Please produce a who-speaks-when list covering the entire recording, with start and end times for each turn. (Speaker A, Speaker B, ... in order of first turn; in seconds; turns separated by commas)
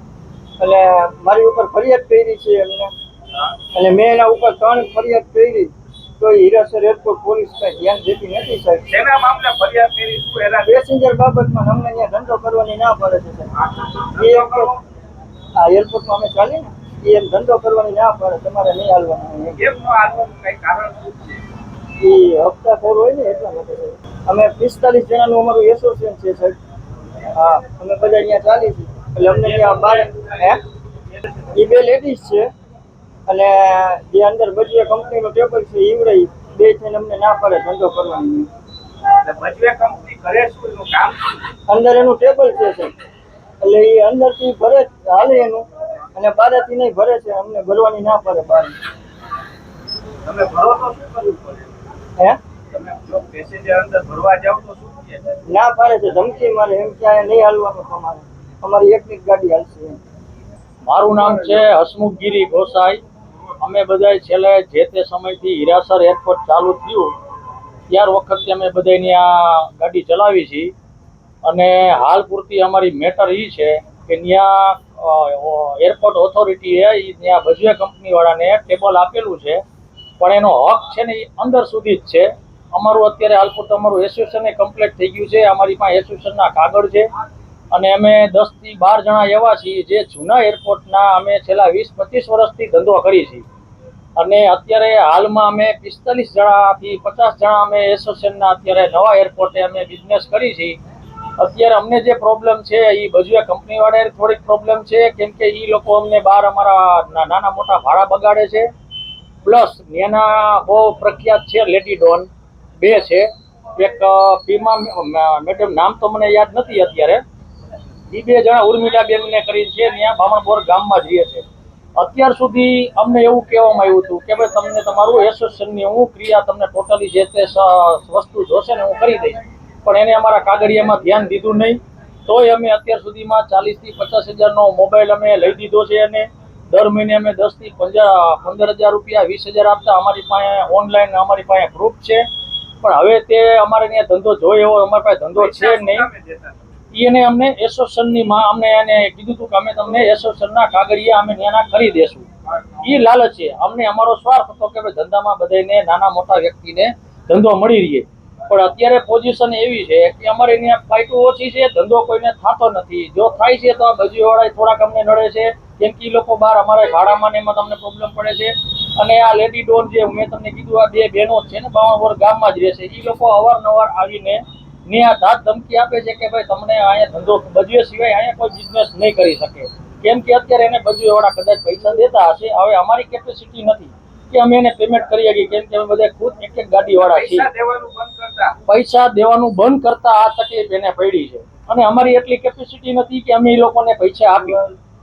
Speaker A: 0.6-2.9, Speaker A: 3.7-8.9, Speaker B: 8.9-10.7, Speaker A: 10.6-13.5, Speaker B: 13.6-14.8, Speaker A: 14.1-14.7, Speaker A: 15.6-19.6, Speaker B: 19.6-21.4, Speaker A: 22.0-26.6, Speaker A: 27.3-30.6, Speaker A: 31.5-32.5, Speaker A: 33.3-38.5, Speaker B: 39.1-41.5, Speaker A: 41.7-42.9, Speaker A: 43.6-48.7, Speaker B: 50.2-51.7, Speaker B: 52.7-55.4, Speaker A: 55.5-60.0, Speaker C: 60.9-63.0, Speaker C: 63.6-67.1, Speaker C: 67.9-70.7, Speaker C: 71.4-79.6, Speaker C: 80.2-87.1, Speaker C: 87.7-93.4, Speaker C: 94.2-100.8, Speaker C: 101.4-108.7, Speaker C: 109.4-112.3, Speaker C: 112.8-117.2, Speaker C: 118.1-121.4, Speaker C: 122.0-142.2, Speaker C: 142.8-146.1, Speaker B: 145.3-146.6, Speaker C: 146.9-152.3, Speaker C: 152.8-187.5, Speaker B: 187.0-188.6, Speaker C: 188.7-194.6